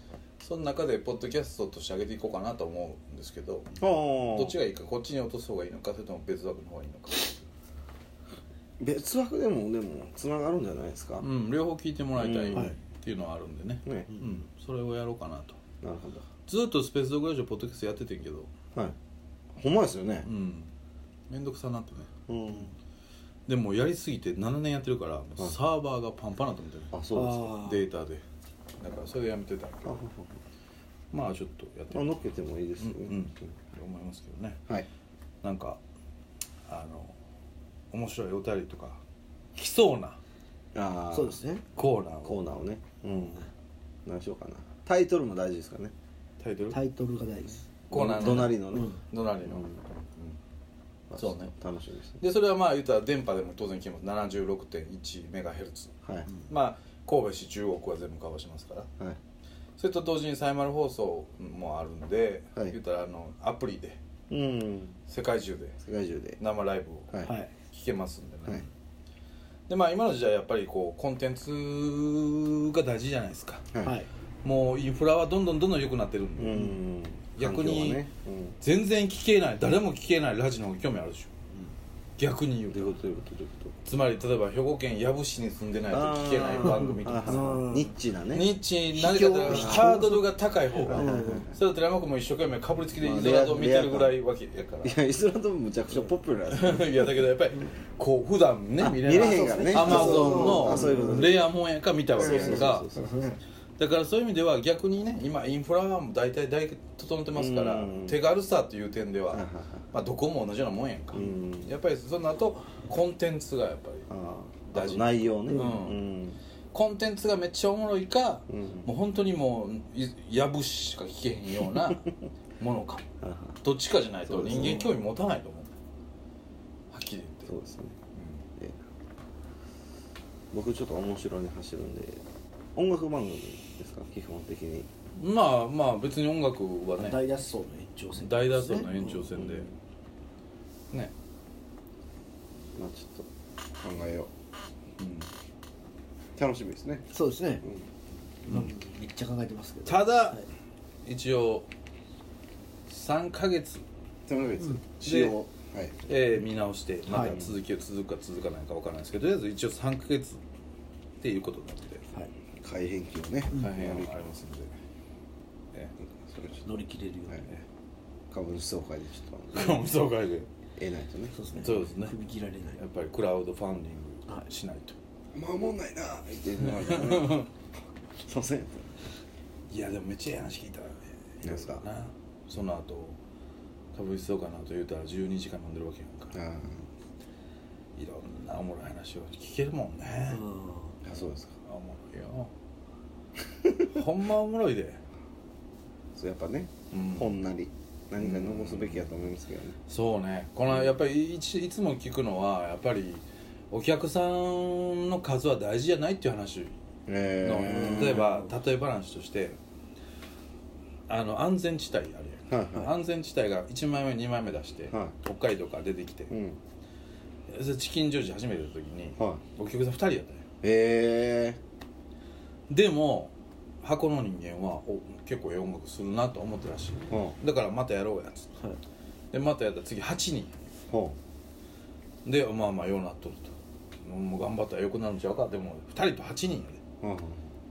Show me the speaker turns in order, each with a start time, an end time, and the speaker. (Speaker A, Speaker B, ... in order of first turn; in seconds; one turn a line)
Speaker A: 0.4-7.5
Speaker B: 3.8-4.5
Speaker B: 8.8-11.3
Speaker A: 11.2-15.6
Speaker B: 12.2-12.7
Speaker B: 15.8-16.3
Speaker A: 16.5-18.5
Speaker B: 19.5-20.3
Speaker A: 20.2-20.7
Speaker A: 21.3-22.1
Speaker B: 22.3-22.7
Speaker A: 23.5-28.2
Speaker B: 26.9-27.5
Speaker C: 27.1-27.9
Speaker A: 28.8-30.1
Speaker B: 29.9-30.4
Speaker A: 31.1-32.2
Speaker B: 31.9-33.3
Speaker A: 32.8-34.6
Speaker A: 35.4-35.8
Speaker A: 36.7-37.2
Speaker A: 37.9-39.0
Speaker A: 39.6-40.2
Speaker B: 40.7-41.4
Speaker C: 41.1-41.6
Speaker A: 41.8-42.4
Speaker B: 42.2-43.4
Speaker B: 44.0-45.9
Speaker A: 46.4-46.8
Speaker C: 46.7-47.7
Speaker B: 47.9-48.9
Speaker A: 47.9-50.4
Speaker C: 48.2-49.0
Speaker B: 49.5-49.8
Speaker B: 51.1-52.2
Speaker A: 51.1-51.5
Speaker A: 52.2-56.0
Speaker A: 56.5-58.9
Speaker A: 59.8-64.0
Speaker B: 64.3-65.0
Speaker A: 65.1-65.8
Speaker B: 65.8-66.4
Speaker A: 66.4-68.7
Speaker C: 67.2-67.5
Speaker A: 69.7-73.7
Speaker C: 73.8-74.1
Speaker A: 74.4-76.7
Speaker B: 76.4-78.6
Speaker A: 77.3-78.1
Speaker A: 78.6-81.3
Speaker A: 82.2-82.9
Speaker B: 82.7-83.7
Speaker A: 83.8-87.6
Speaker B: 85.9-88.5
Speaker C: 87.3-87.9
Speaker A: 88.3-95.0
Speaker C: 88.9-90.2
Speaker B: 89.5-90.0
Speaker C: 90.8-91.5
Speaker B: 90.8-91.6
Speaker B: 93.0-94.1
Speaker B: 94.8-97.0
Speaker A: 96.5-102.9
Speaker B: 98.8-101.4
Speaker C: 99.1-101.2
Speaker B: 102.2-103.4
Speaker A: 103.8-114.1
Speaker B: 107.3-108.2
Speaker B: 109.3-109.9
Speaker B: 111.1-111.7
Speaker B: 114.1-116.4
Speaker A: 114.7-116.0
Speaker A: 116.7-123.0
Speaker B: 118.5-118.9
Speaker B: 123.2-123.6
Speaker A: 123.6-125.7
Speaker B: 124.3-124.9
Speaker A: 126.9-127.5
Speaker B: 127.5-128.0
Speaker A: 128.1-128.4
Speaker B: 130.5-132.2
Speaker B: 132.8-134.9
Speaker A: 135.2-137.2
Speaker C: 137.0-139.1
Speaker A: 138.2-139.7
Speaker B: 139.3-139.7
Speaker B: 142.8-143.3
Speaker B: 143.8-144.3
Speaker A: 145.0-145.3
Speaker B: 146.4-147.1
Speaker C: 147.1-147.6
Speaker A: 148.5-148.7
Speaker C: 148.5-150.5
Speaker A: 149.9-150.4
Speaker A: 151.1-151.7
Speaker A: 152.9-153.8
Speaker B: 154.3-156.0
Speaker A: 155.0-155.4
Speaker A: 156.1-160.4
Speaker C: 157.1-157.4
Speaker B: 157.2-157.6
Speaker A: 161.2-162.1
Speaker B: 162.6-164.2
Speaker A: 163.5-164.7
Speaker B: 166.1-166.7
Speaker C: 166.7-167.4
Speaker B: 168.3-169.9
Speaker A: 169.5-170.5
Speaker B: 170.8-171.3
Speaker C: 171.3-172.8
Speaker A: 171.6-172.2
Speaker A: 172.8-175.0
Speaker B: 175.3-177.5
Speaker A: 176.7-177.5
Speaker B: 178.2-178.9
Speaker A: 179.7-183.2
Speaker B: 181.4-181.8
Speaker A: 183.9-186.3
Speaker B: 186.3-186.9
Speaker A: 188.0-190.4
Speaker C: 190.3-190.9
Speaker B: 191.0-191.5
Speaker A: 191.7-192.5
Speaker A: 193.8-195.0
Speaker B: 196.2-199.8
Speaker A: 196.9-197.3
Speaker A: 198.2-199.2
Speaker A: 199.9-206.8
Speaker B: 207.1-208.3
Speaker A: 207.4-209.6
Speaker C: 207.8-208.4
Speaker A: 211.1-216.3
Speaker B: 212.5-212.9
Speaker B: 216.3-216.6
Speaker A: 217.5-220.4
Speaker B: 220.6-221.6
Speaker A: 222.7-228.5
Speaker B: 227.1-227.3
Speaker A: 229.3-230.5
Speaker B: 230.9-231.2
Speaker A: 232.2-236.8
Speaker B: 237.0-237.4